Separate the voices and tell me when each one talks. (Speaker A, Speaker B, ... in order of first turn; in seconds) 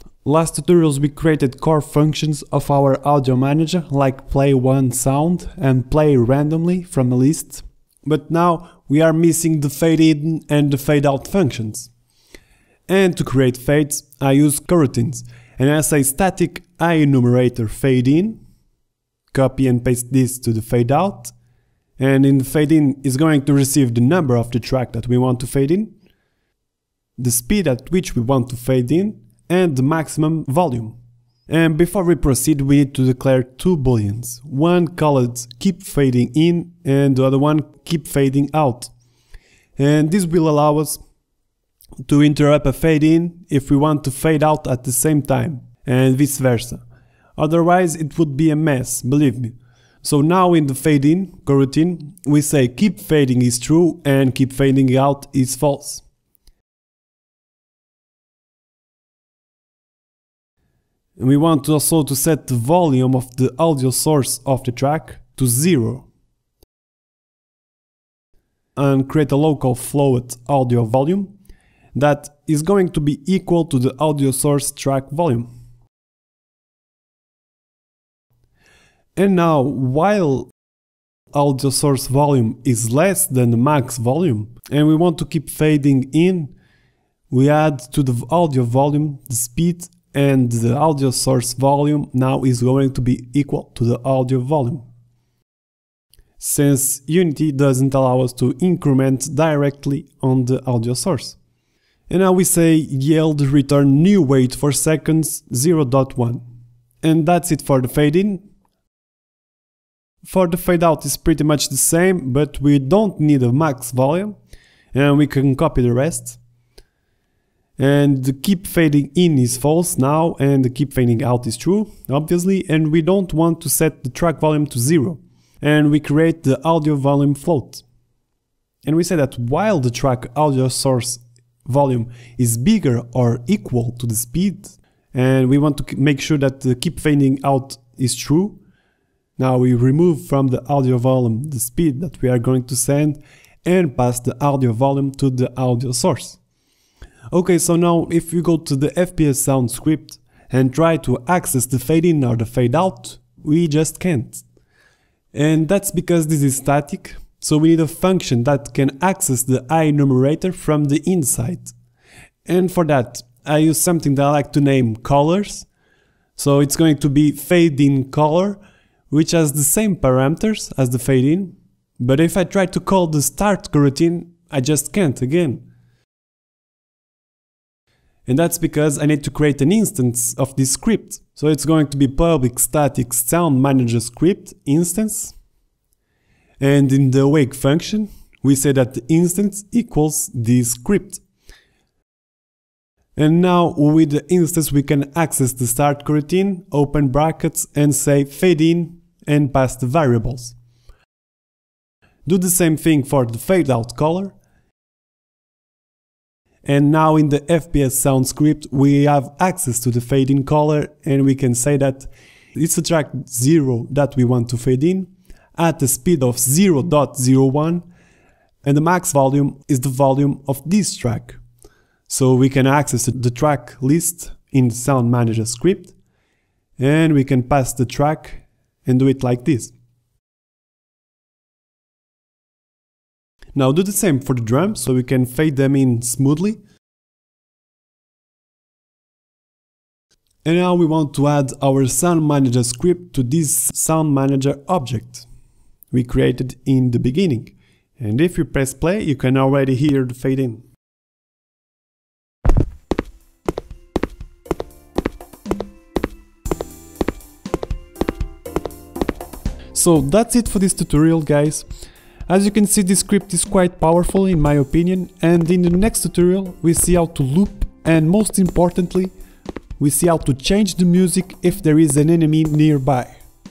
Speaker A: 0.2-11.9, 12.9-18.4, 19.3-21.3, 22.0-25.9, 27.2-31.0, 31.5-38.9, 39.8-41.0, 42.0-46.8, 47.4-56.0, 61.2-66.1, 68.8-71.3, 71.9-75.5, 79.2-80.5, 81.3-86.5, 87.3-94.9, 96.4-101.4, 102.1-106.4, 107.0-108.5, 110.2-114.4, 114.9-116.4, 117.8-127.8, 128.8-138.6, 139.4-146.4, 147.3-154.4, 155.3-161.7, 162.4-165.7, 166.3-175.6, 178.2-185.3, 186.6-191.2, 193.2-200.6, 202.2-204.3, 206.6-217.8, 218.6-221.4, 222.1-225.9, 226.8-229.7, 233.5-236.6, 240.4-245.3, 245.9-250.6, 259.7-261.7, 262.3-269.1, 269.8-273.2